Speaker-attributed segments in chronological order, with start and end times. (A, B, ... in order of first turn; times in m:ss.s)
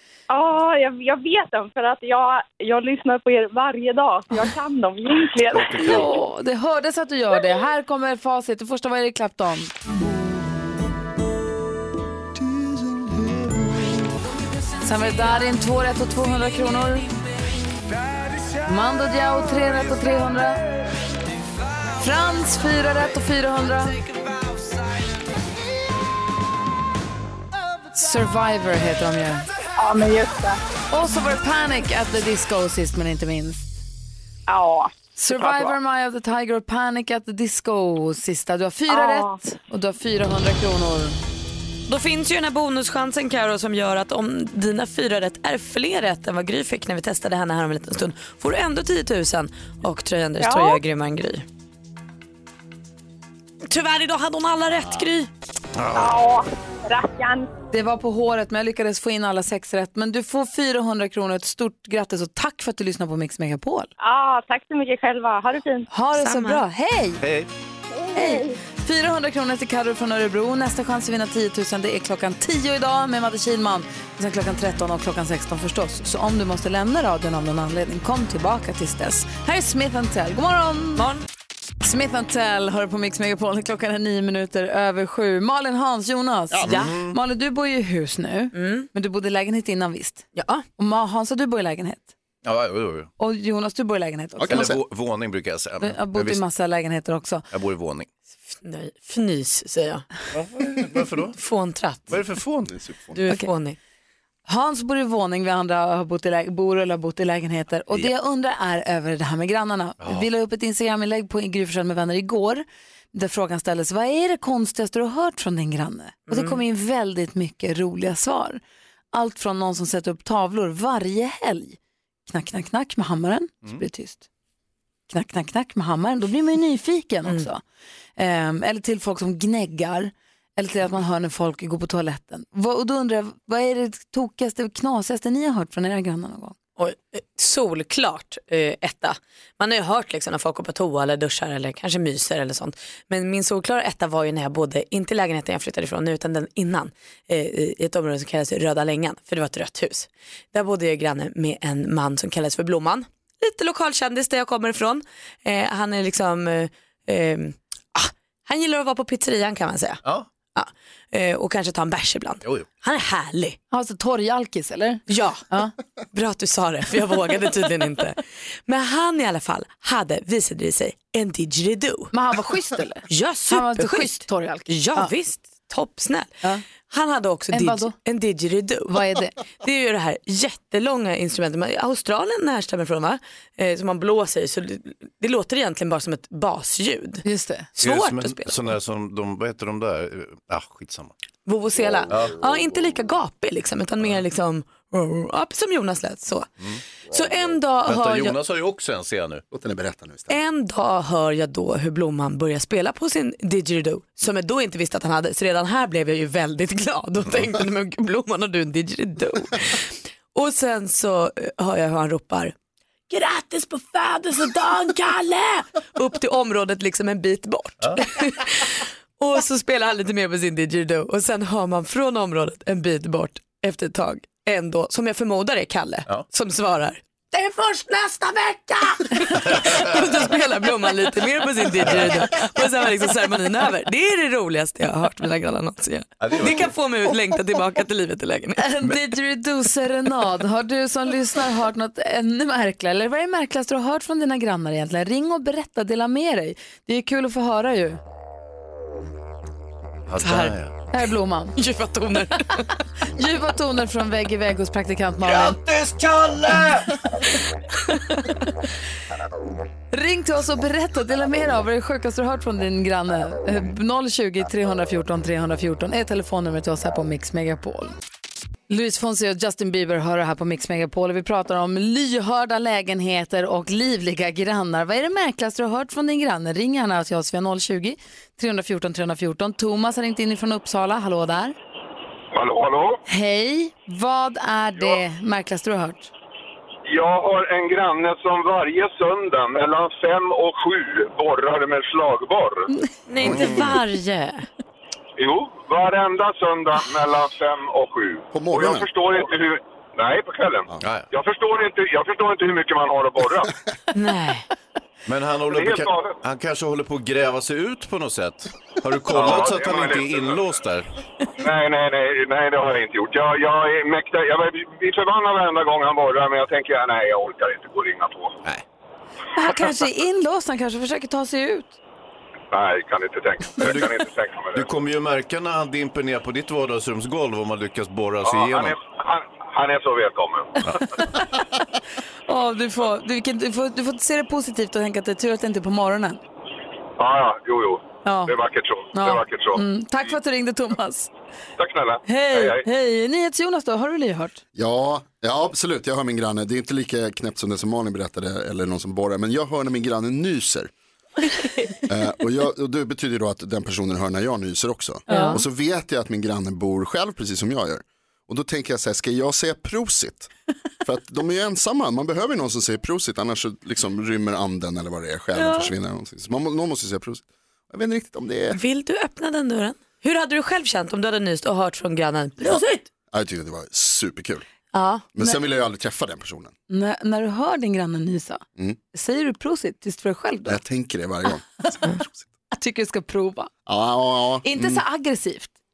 0:00.3-0:06.1 A
0:05.5-0:06.1 B
0:05.8-0:09.7 C
0:14.8-0:17.2 C
0:18.6-0:20.6 C
0:21.9-0:24.0 C
0:27.9-0:29.5 C
0:29.8-0:30.6 A
0:30.9-0:33.8 C
0:34.5-0:34.9 A
0:35.2-0:41.2 C
0:35.4-0:35.7 A
0:38.9-0:39.4 A
0:41.9-0:51.4 D
0:50.4-0:50.8 A
0:53.7-0:55.3 D
0:55.8-0:56.1 B
0:55.9-0:57.5 A
0:57.7-1:03.9 C
1:04.0-1:05.9 A
1:05.9-1:07.2 C
1:06.2-1:06.6 D
1:07.2-1:07.5 B
1:07.9-1:08.6 A
1:08.1-1:21.1 C
1:21.0-1:21.2 D
1:21.8-1:30.2 C
1:26.5-1:26.8 E
1:26.6-1:27.2 B
1:28.5-1:28.9 D
1:30.3-1:30.6 D
1:30.8-1:32.1 C
1:32.4-1:33.1 B
1:33.2-1:34.7 C
1:34.4-1:34.8 E
1:34.5-1:36.4 B
1:35.8-1:37.4 C
1:37.5-1:38.1 B
1:38.6-1:40.1 D
1:40.3-1:41.4 B
1:41.4-1:42.1 D
1:42.1-1:42.8 B
1:42.9-1:43.2 E
1:43.1-1:43.8 D
1:44.4-1:58.6 C
1:50.0-1:50.3 B
1:56.3-1:56.6 D
1:59.1-2:04.2 C
2:05.1-2:07.6 C
2:08.2-2:16.5 C
2:16.8-2:40.0 D
2:40.5-2:43.6 D
2:43.7-2:45.7 C
2:45.1-2:45.4 D
2:46.1-2:52.1 D
2:52.1-2:55.1 C
2:53.1-2:56.3 D
2:56.9-3:07.2 D
2:57.5-2:57.9 C
2:58.9-2:59.3 C
3:07.2-3:07.7 C
3:07.8-3:11.1 B
3:07.8-3:08.7 D
3:11.4-3:16.5 D
3:12.1-3:12.4 B
3:14.0-3:14.2 B
3:17.1-3:18.4 D
3:17.8-3:19.4 B
3:19.5-3:20.4 E
3:20.3-3:32.5 D
3:33.1-3:58.6 D
3:49.4-3:50.0 B
3:51.8-3:52.2 B
3:56.2-3:56.7 B
3:58.6-4:08.0 C
4:10.1-4:10.8 B
4:10.2-4:11.5 C
4:11.6-4:12.6 D
4:13.0-4:15.6 C
4:15.3-4:16.9 B
4:19.9-4:28.0 C
4:28.7-4:41.6 C
4:42.3-4:43.0 F
4:43.1-4:46.1 C
4:46.9-4:52.7 F
4:53.1-4:54.5 D
4:53.2-4:53.8 B
4:55.2-5:03.5 F
4:58.3-4:58.9 E
5:00.8-5:01.1 B
5:03.9-5:04.4 D
5:05.0-5:10.9 B
5:05.5-5:06.2 F
5:09.1-5:10.4 F
5:11.4-5:18.3 F
5:19.3-5:21.8 C
5:22.5-5:24.7 F
5:23.6-5:28.8 B
5:28.2-5:30.6 F
5:31.0-5:31.6 C
5:32.3-5:36.2 C
5:37.0-5:39.6 F
5:38.0-5:38.3 C
5:38.9-5:41.1 C
5:41.6-5:42.6 F
5:42.0-5:44.4 C
5:44.5-5:50.7 E
5:51.9-6:00.3 E
5:55.1-5:55.4 C
5:55.1-5:55.4 D
6:00.8-6:08.6 E
6:08.5-6:12.8 D
6:13.1-6:14.4 E
6:14.7-6:15.0 D
6:15.1-6:16.5 E
6:16.7-6:20.6 C
6:20.4-6:22.3 E
6:22.5-6:23.5 C
6:23.6-6:24.8 E
6:24.4-6:25.5 C